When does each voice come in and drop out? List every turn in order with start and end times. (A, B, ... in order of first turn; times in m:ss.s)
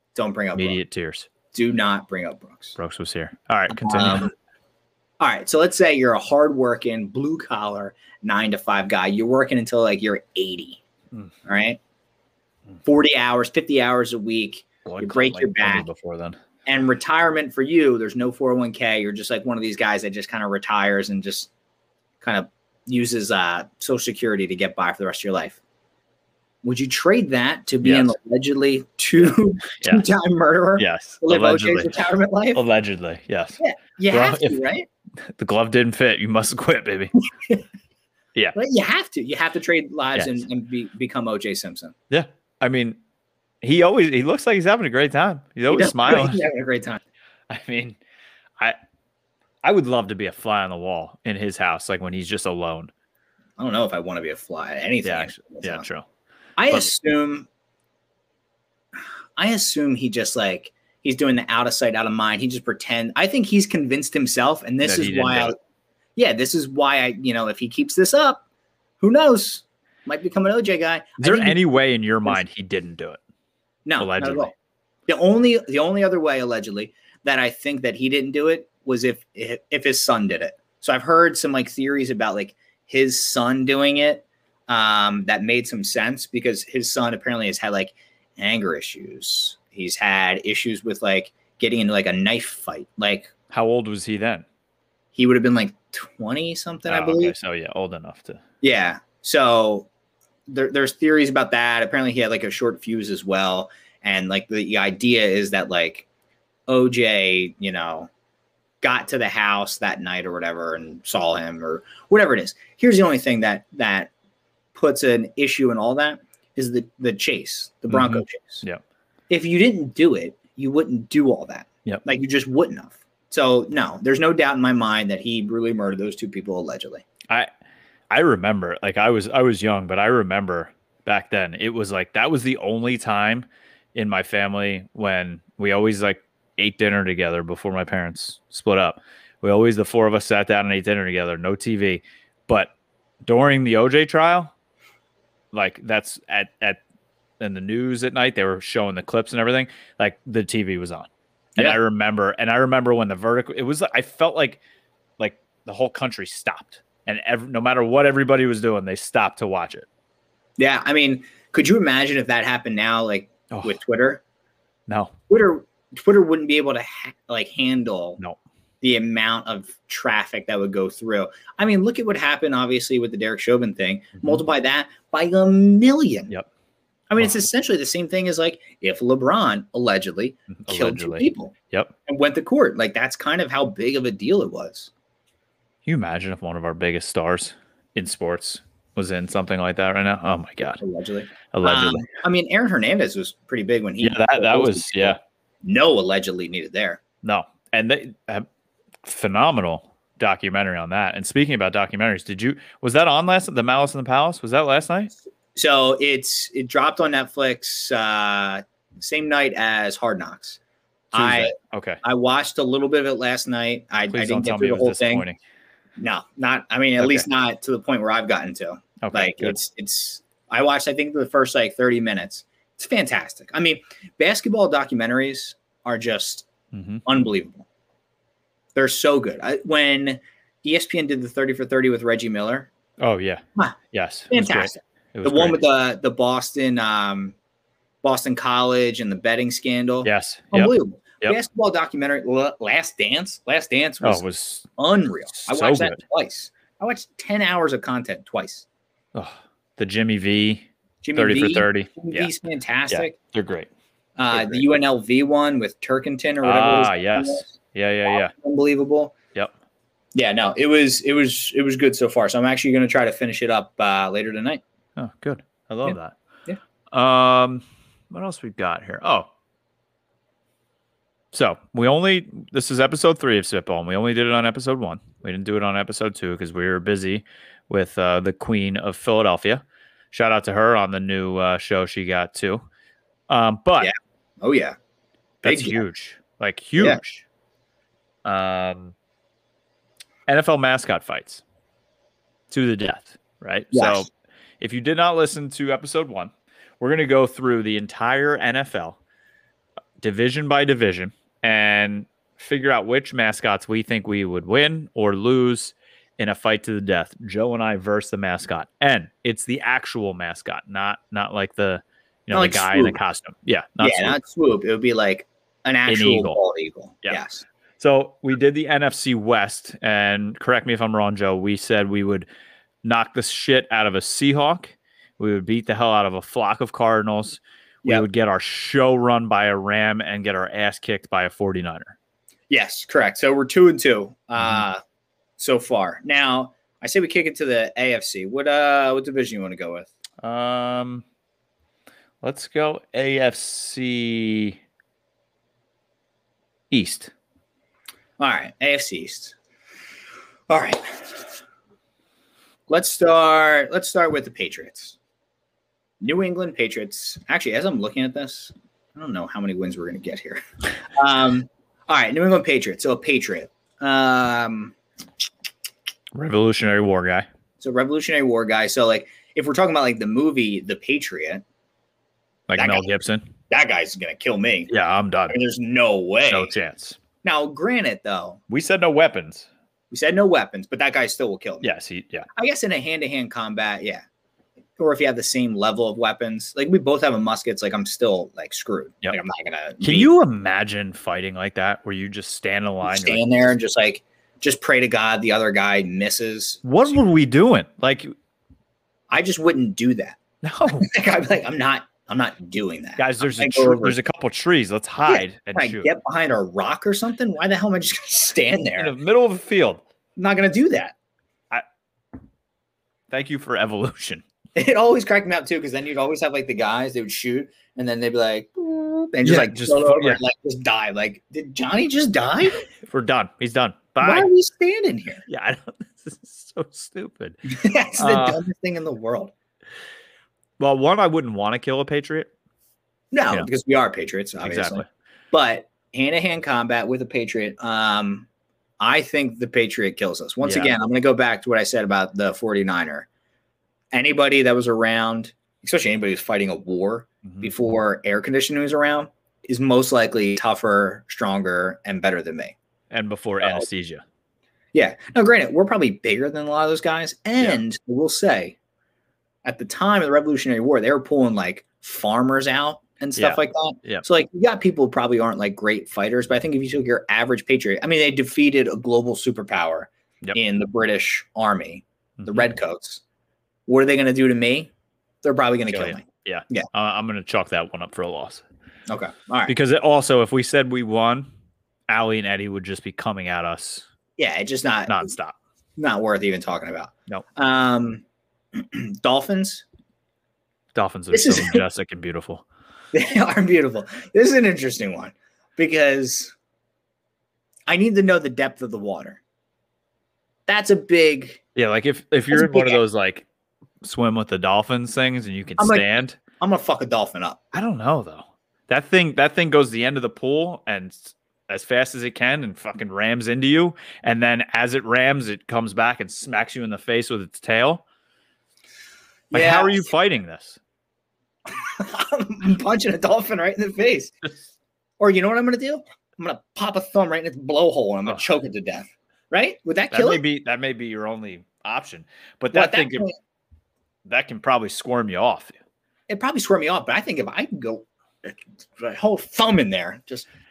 0:00.2-0:00.8 A
0:00.6-0:01.3 B
0:01.5-0:02.8 A
0:02.8-0:04.3 B
0:03.7-0:04.3 A
0:05.2-0:10.8 A
0:11.5-0:11.8 A
0:12.8-0:15.9 A
0:14.8-0:16.4 B
0:16.7-0:21.5 A
0:22.2-0:25.6 A
0:26.6-0:32.6 A
0:27.8-0:28.1 B
0:29.2-0:30.0 B
0:30.8-0:31.9 B
0:32.5-0:34.6 B
0:33.6-0:34.9 A
0:35.2-0:37.2 B
0:38.5-0:41.9 A
0:40.2-0:40.4 B
0:42.1-0:43.0 B
0:43.6-0:46.4 B
0:45.7-0:47.0 A
0:47.5-0:48.0 B
0:49.6-0:52.9 B
0:53.6-0:55.8 A
0:55.0-0:56.0 B
0:56.6-0:57.5 A
0:59.4-1:05.6 A
1:04.8-1:05.5 B
1:06.2-1:08.4 A
1:09.0-1:11.6 A
1:11.2-1:13.2 B
1:13.9-1:14.5 A
1:14.0-1:14.5 B
1:15.1-1:33.3 A
1:33.5-1:34.4 B
1:35.2-1:37.4 A
1:36.9-1:38.4 B
1:38.6-1:39.9 A
1:40.5-1:46.1 A
1:46.7-1:48.1 A
1:48.8-1:54.1 A
1:54.8-1:58.6 A
1:57.9-1:58.8 B
1:59.3-2:07.0 A
2:08.1-2:22.7 B
2:23.2-2:24.5 B
2:25.5-2:26.8 B
2:27.4-2:34.6 B
2:35.2-2:39.9 B
2:40.6-2:44.2 A
2:43.5-2:43.8 B
2:44.9-2:45.2 B
2:45.3-2:48.2 A
2:48.8-2:56.3 A
2:57.1-3:01.6 A
3:00.5-3:01.9 B
3:02.1-3:04.9 A
3:05.9-3:10.8 B
3:10.8-3:17.0 A
3:11.5-3:12.1 B
3:14.0-3:15.2 B
3:17.2-3:18.5 B
3:19.0-3:25.1 B
3:25.5-3:30.6 A
3:31.1-3:35.2 A
3:31.1-3:32.0 B
3:34.1-3:35.4 B
3:36.0-3:46.5 A
3:37.0-3:37.2 B
3:39.0-3:39.6 B
3:46.7-3:47.0 B
3:47.1-3:47.7 A
3:48.8-3:52.7 A
3:53.0-3:53.4 B
3:53.9-3:55.6 B
3:54.3-3:57.4 A
3:58.0-4:04.2 A
4:00.0-4:01.4 B
4:04.0-4:04.7 B
4:04.8-4:08.6 A
4:05.4-4:06.0 B
4:09.1-4:12.3 B
4:11.0-4:13.2 A
4:12.9-4:13.7 B
4:14.2-4:17.5 A
4:14.3-4:14.6 B
4:16.4-4:18.3 B
4:18.1-4:19.2 A
4:20.1-4:24.6 A
4:25.0-4:26.2 B
4:25.8-4:26.6 A
4:26.9-4:29.3 B
4:31.3-4:42.6 B
4:43.3-4:43.9 B
4:43.8-4:44.8 A
4:45.4-4:47.2 B
4:45.4-4:45.8 A
4:48.2-4:48.9 B
4:50.3-4:51.4 B
4:52.5-4:59.0 B
4:53.7-4:54.1 A
5:00.0-5:14.2 B
5:12.3-5:13.0 A
5:13.8-5:17.4 A
5:15.9-5:16.4 B
5:17.8-5:22.3 B
5:22.8-5:31.9 B
5:32.5-5:34.8 A
5:34.4-5:34.6 B
5:35.4-5:39.9 A
5:40.2-5:41.0 B
5:42.2-5:44.6 B
5:46.7-5:47.1 B
5:48.2-5:49.4 A
5:50.5-5:51.3 A
5:52.7-5:55.0 A
5:56.0-6:04.8 A
6:06.1-6:07.3 B
6:07.6-6:11.4 A
6:12.5-6:13.3 B
6:12.6-6:12.9 A
6:13.5-6:14.7 A
6:14.7-6:15.4 B
6:15.3-6:16.5 A
6:16.3-6:17.0 B
6:17.2-6:18.4 A
6:18.5-6:19.5 B
6:19.9-6:21.7 A
6:21.6-6:22.3 B
6:22.4-6:24.0 A
6:24.8-6:30.1 A
6:29.8-6:33.2 B
6:32.8-6:36.9 A
6:36.6-6:38.1 B
6:39.1-6:44.0 A
6:40.4-6:40.9 B
6:43.0-6:45.9 B
6:45.1-6:49.0 A
6:48.8-6:49.8 B
6:50.2-6:50.9 A
6:53.1-6:54.2 B
6:54.6-7:02.6 A
6:59.2-7:00.2 B
7:02.9-7:04.3 B
7:04.0-7:05.2 A
7:05.3-7:08.4 B
7:07.5-7:09.3 A
7:10.6-7:12.3 B
7:13.1-7:18.3 A
7:14.4-7:14.9 B
7:18.8-7:23.1 A
7:20.4-7:20.7 B
7:23.9-7:32.6 A
7:27.2-7:27.5 B
7:32.9-7:34.0 B
7:33.4-7:33.7 A
7:34.7-7:38.6 A
7:39.4-7:53.0 A
7:43.2-7:44.0 B
7:52.2-7:52.5 B
7:53.7-7:54.7 A
7:55.2-7:56.7 A
7:55.7-7:58.4 B
7:58.9-7:59.5 A
7:59.5-8:01.3 B
8:01.9-8:03.8 B
8:04.2-8:05.1 A
8:04.9-8:05.4 B
8:05.8-8:08.0 A
8:08.6-8:09.6 A
8:10.8-8:12.4 B
8:11.1-8:11.6 A
8:12.9-8:16.3 A
8:17.7-8:19.2 A
8:20.5-8:21.4 A
8:21.6-8:23.2 B
8:22.3-8:22.8 A
8:23.8-8:26.2 B
8:25.6-8:25.9 A
8:26.4-8:27.4 A
8:27.5-8:37.8 B
8:39.3-8:39.9 A
8:39.3-8:40.6 B
8:41.5-8:44.2 A
8:45.0-8:50.2 A
8:49.9-8:53.1 B
8:52.5-8:53.2 A
8:54.1-8:55.5 B
8:56.1-9:00.3 A